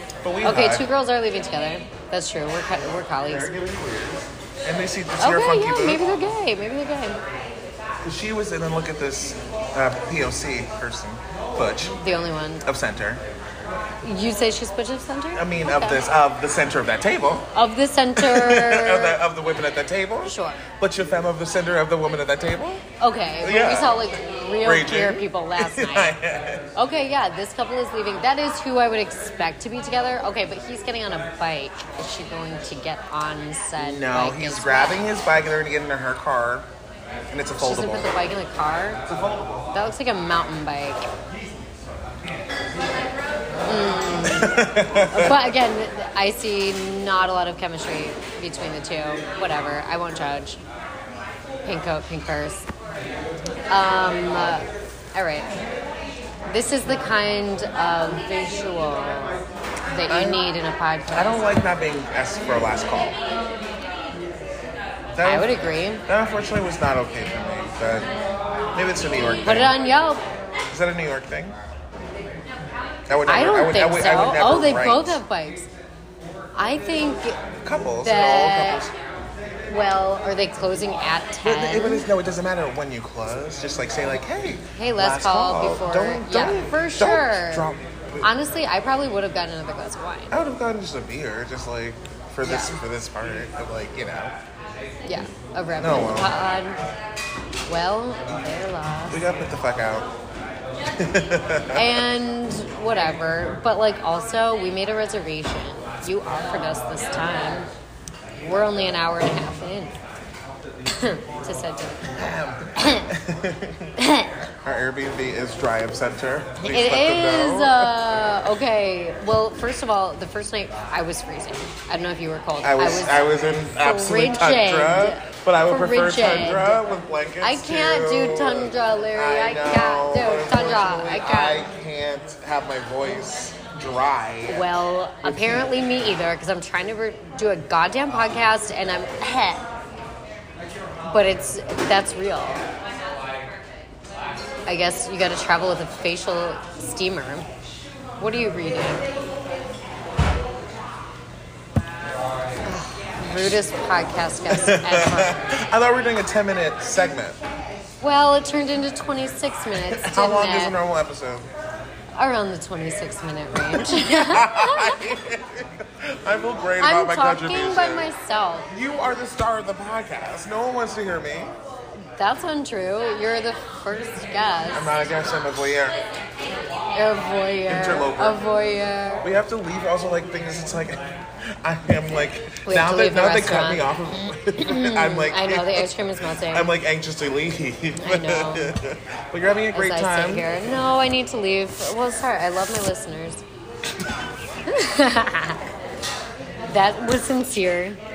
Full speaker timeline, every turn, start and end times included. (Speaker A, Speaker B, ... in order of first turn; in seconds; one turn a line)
Speaker A: 0.2-0.9
Speaker B: 0.4-3.5
Speaker A: 3.3-6.0
Speaker B: 5.2-7.2
Speaker A: 8.0-12.0
Speaker B: 12.0-12.7
Speaker A: 12.7-13.2
Speaker B: 14.0-16.0
Speaker A: 15.3-17.5
Speaker B: 17.5-19.2
Speaker A: 18.1-22.8
Speaker B: 20.2-20.6
Speaker B: 23.0-26.2
Speaker A: 23.4-24.0
Speaker A: 24.6-26.7
Speaker B: 26.8-35.1
Speaker A: 33.8-36.7
Speaker A: 37.3-38.1
Speaker B: 37.6-39.0
Speaker A: 39.1-39.6
Speaker B: 39.7-41.1
Speaker B: 43.6-50.6
Speaker A: 44.2-45.5
Speaker B: 51.6-52.7
Speaker B: 53.7-55.5
Speaker B: 56.5-61.5
Speaker A: 60.1-60.4
Speaker A: 61.1-63.2
Speaker A: 65.1-68.1
Speaker B: 65.2-66.0
Speaker A: 68.8-69.8
Speaker B: 69.4-70.2
Speaker A: 70.7-71.6
Speaker A: 73.1-75.2
Speaker B: 73.3-75.7
Speaker B: 76.6-77.4
Speaker A: 77.6-78.9
Speaker B: 78.0-78.9
Speaker B: 79.7-82.1
Speaker A: 81.4-88.3
Speaker B: 84.7-87.7
Speaker B: 88.2-90.3
Speaker A: 90.3-94.4
Speaker B: 92.4-92.8
Speaker B: 95.1-96.8
Speaker A: 95.8-96.3
Speaker B: 97.7-99.2
Speaker A: 99.1-100.1
Speaker A: 100.9-102.0
Speaker B: 101.8-107.7
Speaker B: 108.4-110.0
Speaker B: 110.9-112.1
Speaker A: 112.0-114.0
Speaker B: 112.8-113.1
Speaker B: 114.0-114.3
Speaker A: 114.6-118.0
Speaker B: 116.7-123.2
Speaker A: 122.6-134.7
Speaker B: 123.8-126.8
Speaker B: 127.4-131.6
Speaker B: 134.5-139.7
Speaker A: 135.2-135.7
Speaker B: 141.1-142.7
Speaker B: 144.7-147.5
Speaker B: 148.2-149.1
Speaker B: 152.6-155.6
Speaker A: 153.3-153.6
Speaker A: 154.5-157.4
Speaker B: 158.0-160.7
Speaker A: 159.8-161.5
Speaker B: 162.2-165.0
Speaker A: 163.7-168.1
Speaker B: 166.8-168.7
Speaker A: 168.7-171.6
Speaker B: 172.1-175.0
Speaker A: 174.7-176.0
Speaker B: 176.9-179.2
Speaker A: 177.7-178.4
Speaker A: 179.2-185.9
Speaker B: 182.7-183.9
Speaker B: 184.5-186.7
Speaker A: 186.5-190.5
Speaker B: 188.0-188.7
Speaker B: 189.7-193.4
Speaker B: 194.7-195.7
Speaker B: 196.7-198.0